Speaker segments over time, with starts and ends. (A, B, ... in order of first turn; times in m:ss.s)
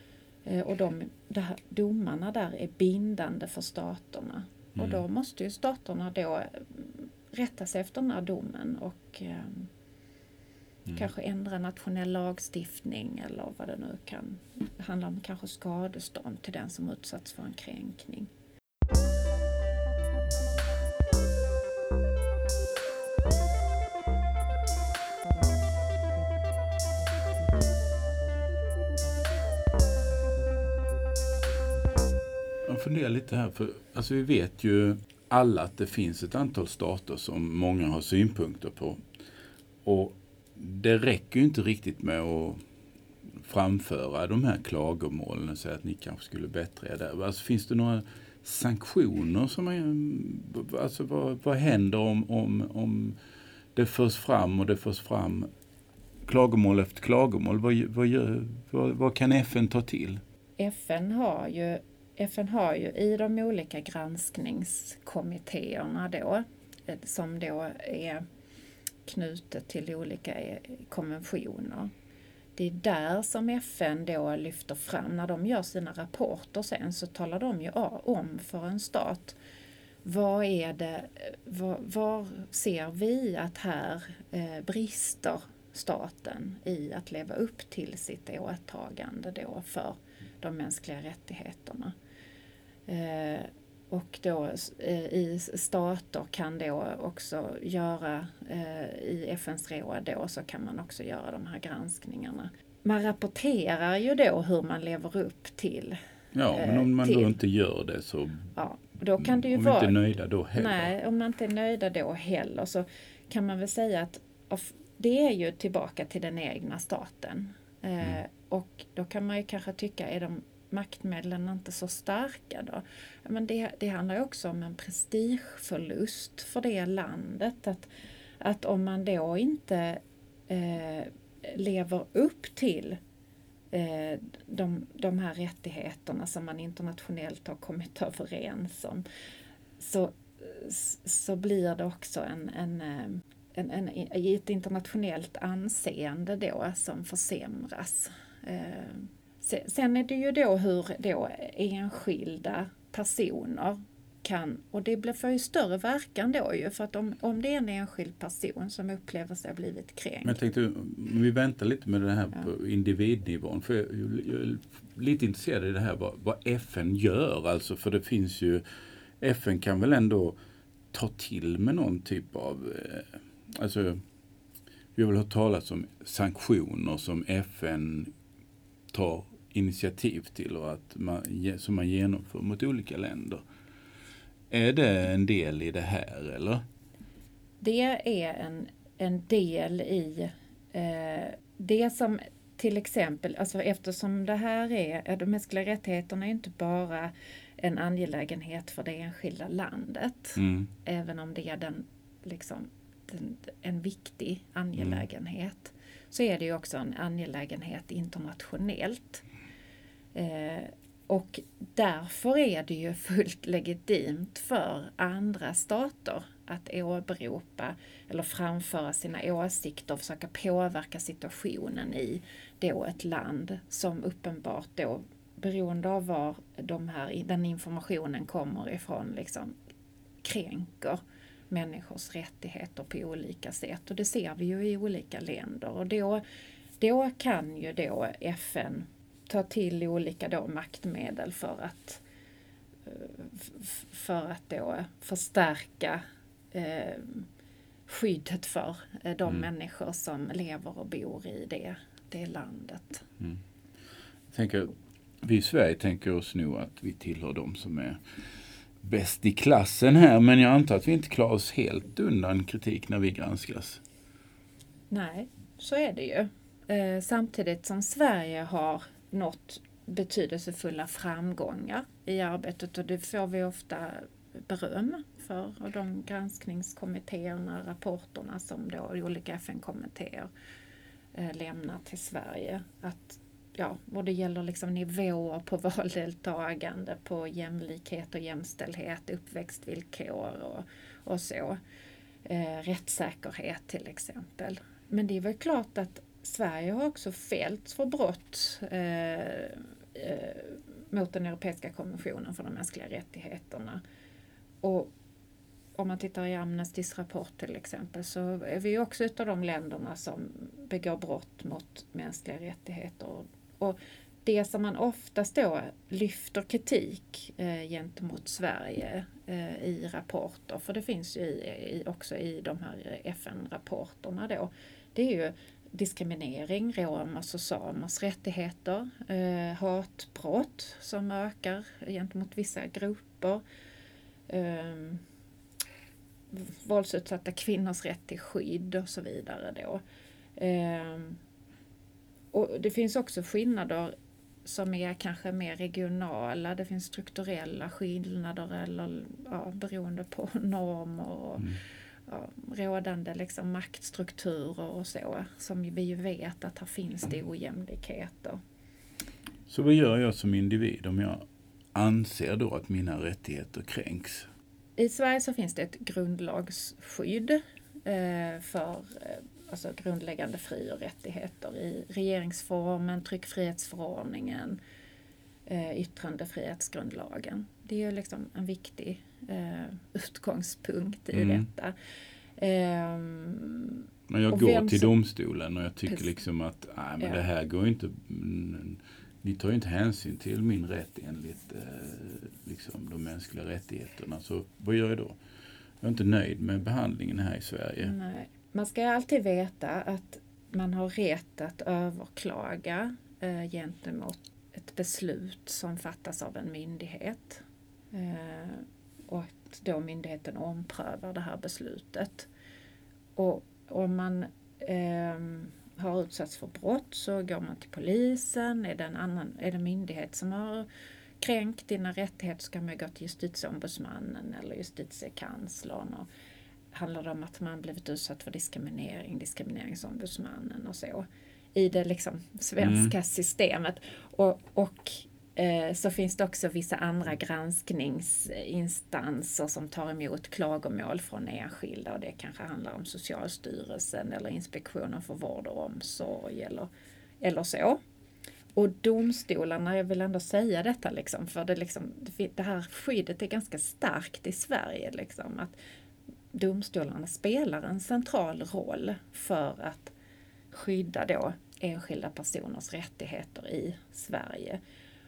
0:00.4-0:09.7 A
0:04.8-0:05.0 B
0:10.9-0:18.3 A
0:32.6-0:39.0 B
0:39.8-0:42.6 B
0:43.3-0:53.2 B
0:53.8-0:55.5 B
0:56.3-1:00.2 B
1:00.6-1:08.2 A
1:09.1-1:11.9 A
1:12.6-1:19.4 A
1:20.0-1:31.9 A
1:32.9-1:46.0 A
1:46.3-1:48.5 B
1:46.5-1:47.3 A
1:48.6-1:50.0 A
1:49.2-1:50.9 B
1:50.6-2:07.9 A
2:08.4-2:13.0 A
2:13.7-2:19.0 A
2:19.8-2:40.4 A
2:40.2-2:48.6 B
2:49.2-2:50.4 B
2:50.9-2:54.0 B
2:55.0-2:58.1 B
2:58.9-3:03.4 B
3:04.5-3:06.6 B
3:07.6-3:29.2 A
3:20.4-3:20.7 B
3:24.8-3:25.0 B
3:30.2-3:49.5 A
3:50.2-3:56.2 A
3:56.8-4:02.0 A
4:02.9-4:07.3 A
4:07.9-4:13.0 A
4:14.3-4:18.0 B
4:18.8-4:23.8 B
4:24.9-4:40.3 A
4:41.2-4:51.6 A
4:52.2-5:03.8 A
5:04.6-5:04.9 A
5:05.8-5:33.4 A
5:34.3-5:35.0 A
5:36.3-5:39.8 A
5:40.4-5:41.2 A
5:42.3-5:43.9 A
5:44.4-5:51.6 A
5:52.1-5:58.4 A
5:59.5-6:04.3 B
6:04.8-6:14.6 A
6:15.5-6:21.8 A
6:21.1-6:21.5 B
6:22.4-6:24.9 A
6:24.1-6:35.2 B
6:35.8-6:37.9 B
6:37.8-6:52.3 A
6:53.2-7:00.7 A
7:01.2-7:06.1 A
7:06.7-7:26.7 A
7:12.6-7:12.9 B
7:27.2-7:27.8 A
7:28.6-7:35.6 A
7:36.3-7:39.9 A
7:40.5-7:44.6 A